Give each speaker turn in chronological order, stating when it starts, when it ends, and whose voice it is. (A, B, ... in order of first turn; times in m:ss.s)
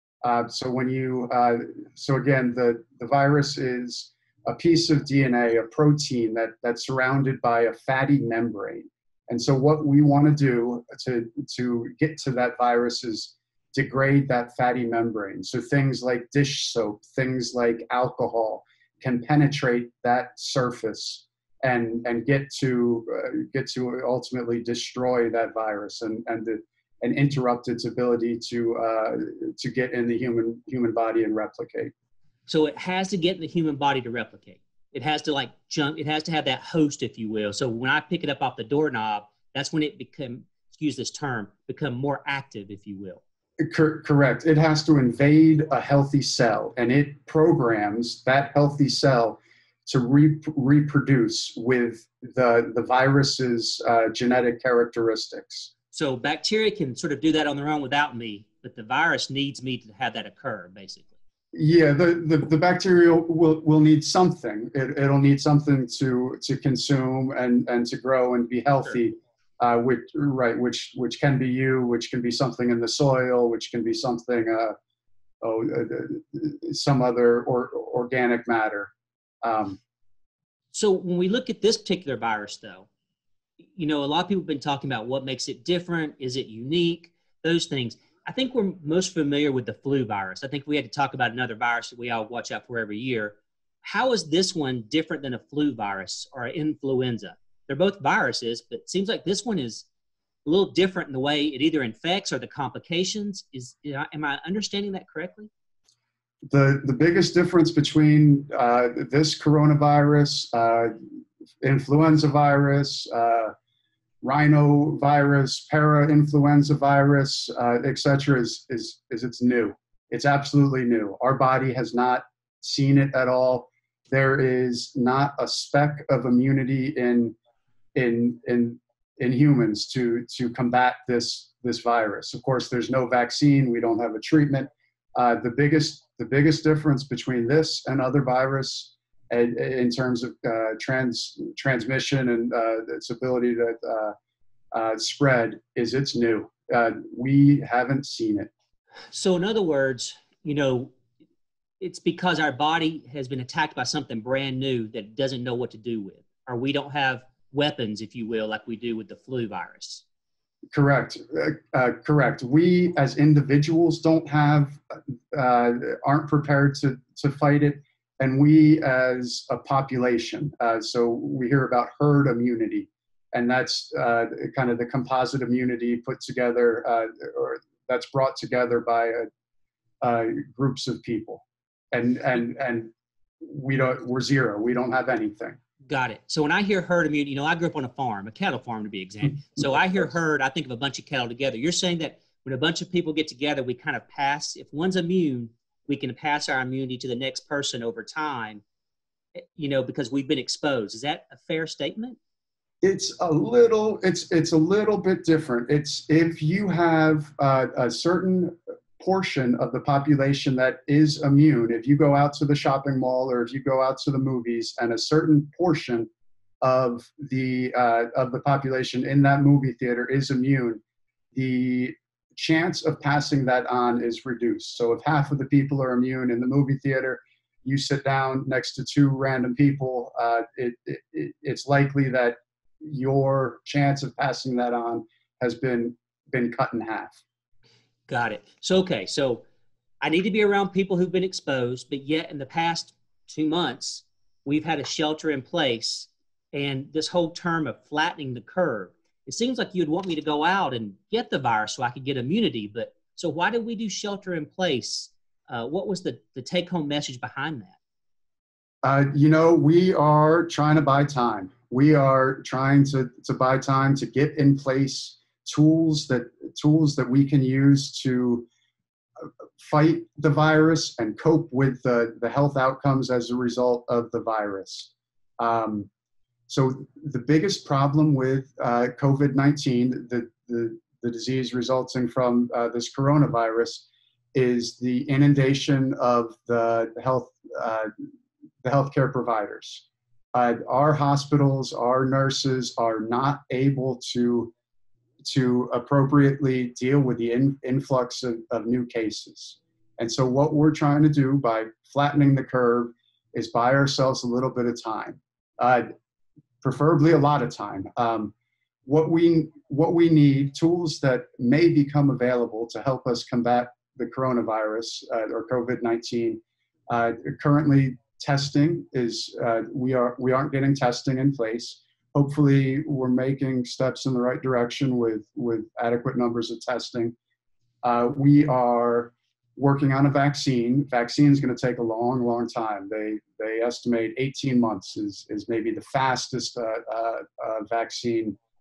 0:00.2-0:31.9 A
0:32.5-0:43.2 B
0:43.6-0:55.7 A
0:55.9-1:01.1 B
1:01.5-1:14.7 A
1:15.4-1:18.9 A
1:19.4-1:19.8 A
1:20.7-1:22.9 B
1:23.7-1:39.8 B
1:40.4-1:45.5 B
1:46.5-1:51.0 A
1:51.6-1:53.5 A
1:54.2-2:07.4 A
2:07.9-2:24.1 A
2:24.7-2:28.5 A
2:29.1-2:30.9 B
2:31.8-2:40.0 B
2:40.7-2:59.3 A
3:00.0-3:02.9 A
3:03.4-3:05.6 A
3:05.9-3:18.6 B
3:19.4-3:22.2 B
3:22.8-3:36.1 A
3:36.6-3:40.8 A
3:41.3-3:57.2 A
3:58.1-3:59.4 B
4:00.0-4:17.8 B
4:18.8-4:28.4 A
4:29.2-4:35.9 A
4:36.5-4:47.9 A
4:48.6-4:54.5 A
4:55.2-5:05.9 A
5:06.6-5:08.3 A
5:08.8-5:27.1 A
5:27.8-5:38.4 A